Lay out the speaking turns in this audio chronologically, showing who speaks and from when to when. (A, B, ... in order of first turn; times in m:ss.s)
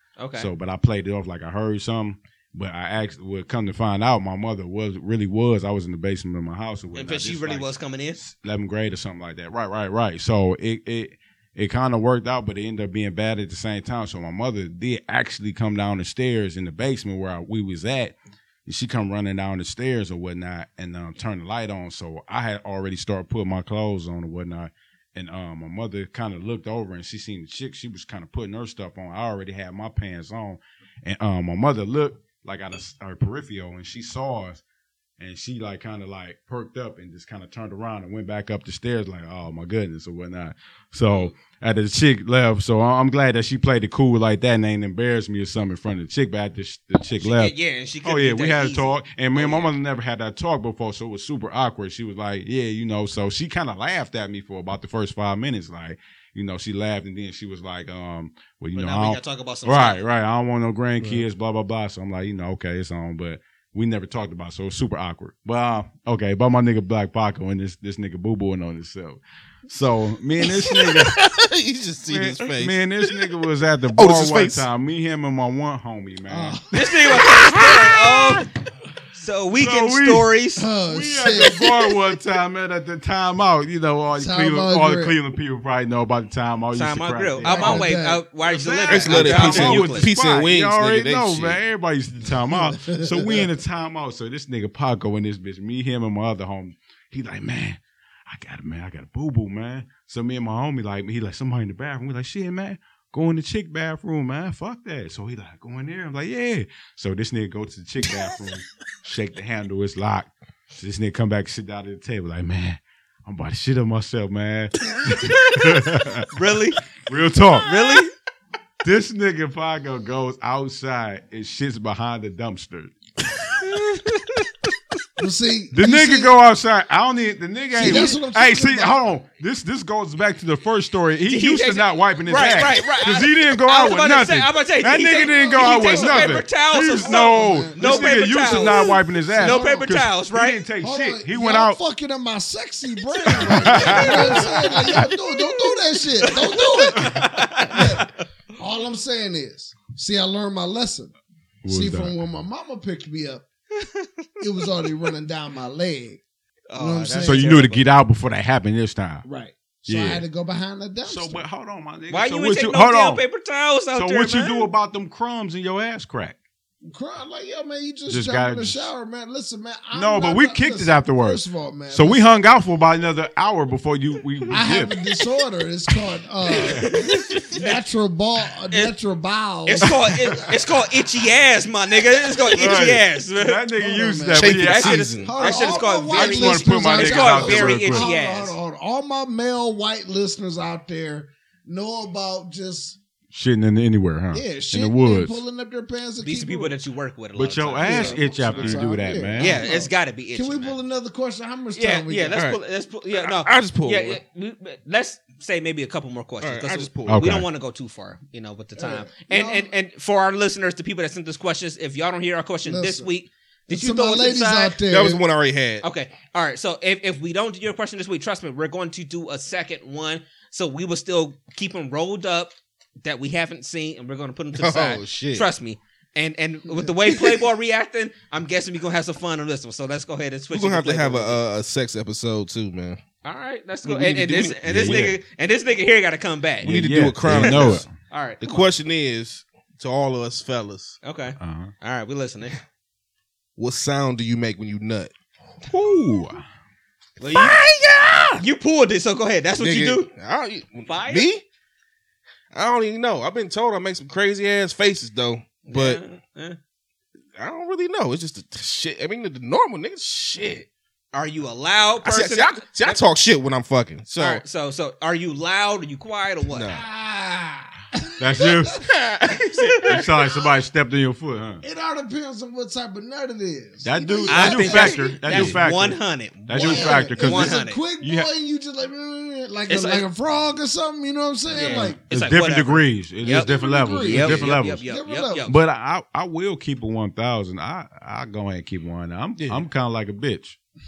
0:00.2-0:00.5 A
0:00.3-0:34.6 B
0:06.9-0:08.2 A
0:35.2-1:11.3 B
0:47.2-0:49.7 A
0:58.7-1:00.0 A
1:10.5-1:13.3 C
1:12.1-1:16.6 B
1:13.9-1:14.6 C
1:16.3-1:17.2 D
1:16.7-1:18.5 A
1:19.2-1:20.6 A
1:19.6-1:20.3 B
1:20.6-1:22.0 D
1:20.9-1:56.3 B
1:24.2-1:25.1 D
1:26.7-1:30.1 A
1:27.4-1:28.2 D
1:28.9-1:31.6 C
1:32.5-1:33.5 D
1:56.3-1:56.8 A
1:57.0-1:58.0 B
1:57.6-1:58.1 A
1:58.8-2:02.9 B
2:03.6-2:04.5 A
2:05.2-2:06.3 D
2:05.7-2:21.8 B
2:07.8-2:09.0 D
2:07.8-2:08.2 A
2:11.3-2:20.6 A
2:15.3-2:16.4 D
2:16.9-2:19.9 D
2:20.8-2:31.1 D
2:23.2-2:28.1 A
2:23.4-2:25.0 B
2:31.6-2:32.1 B
2:31.6-2:33.4 D
2:33.8-2:34.1 A
2:34.4-2:36.2 D
2:36.7-2:37.9 A
2:36.8-2:37.6 D
2:37.2-2:39.2 B
2:39.2-2:41.4 D
2:39.9-2:40.2 B
2:41.0-2:43.2 B
2:42.1-2:44.7 A
2:43.9-2:46.4 B
2:46.8-2:52.4 D
2:48.1-2:48.9 B
2:49.9-2:55.0 B
2:54.5-3:00.3 D
2:56.5-2:57.8 A
2:59.6-3:03.6 A
3:02.5-3:08.1 B
3:03.8-3:04.6 D
3:04.3-3:05.5 C
3:04.5-3:08.6 A
3:05.2-3:13.0 D
3:13.3-3:15.4 B
3:14.3-3:16.7 D
3:16.2-3:18.8 A
3:17.3-3:19.6 B
3:17.8-3:22.4 D
3:19.3-3:20.7 A
3:21.7-3:34.8 A
3:22.3-3:22.6 C
3:23.1-3:24.2 C
3:26.4-3:27.2 C
3:27.1-3:27.5 B
3:28.8-3:29.7 D
3:32.6-3:33.1 D
3:33.7-3:35.2 D
3:34.9-3:35.8 C
3:35.8-3:51.4 A
3:44.6-3:45.5 C
3:50.5-3:53.0 C
3:53.2-3:56.7 A
3:53.8-3:55.1 C
3:54.6-3:55.2 B
3:56.6-3:57.9 B
3:56.6-3:57.8 C
3:57.3-3:58.6 A
3:58.4-4:01.0 C
4:01.0-4:02.6 A
4:01.4-4:01.7 B
4:03.6-4:05.1 C
4:05.6-4:06.4 B
4:07.2-4:07.6 A
4:07.3-4:08.4 C
4:08.4-4:10.1 A
4:09.6-4:11.4 C
4:10.8-4:11.3 A
4:12.5-4:16.0 C
4:15.7-4:16.6 A
4:17.4-4:20.7 C
4:21.1-4:23.0 A
4:22.0-4:24.4 C
4:24.2-4:26.7 A
4:26.5-4:26.8 C
4:26.7-4:28.9 D
4:28.2-4:28.9 B
4:28.9-4:30.0 C
4:29.6-4:29.8 A
4:29.8-4:31.6 B
4:31.6-4:35.5 D
4:33.8-4:38.3 B
4:34.3-4:37.8 A
4:36.5-4:42.0 D
4:39.7-4:40.1 A
4:41.5-4:44.8 B
4:41.5-4:43.5 A
4:43.3-4:45.4 D
4:44.0-4:45.5 A
4:45.4-4:50.6 B
4:49.4-4:49.6 C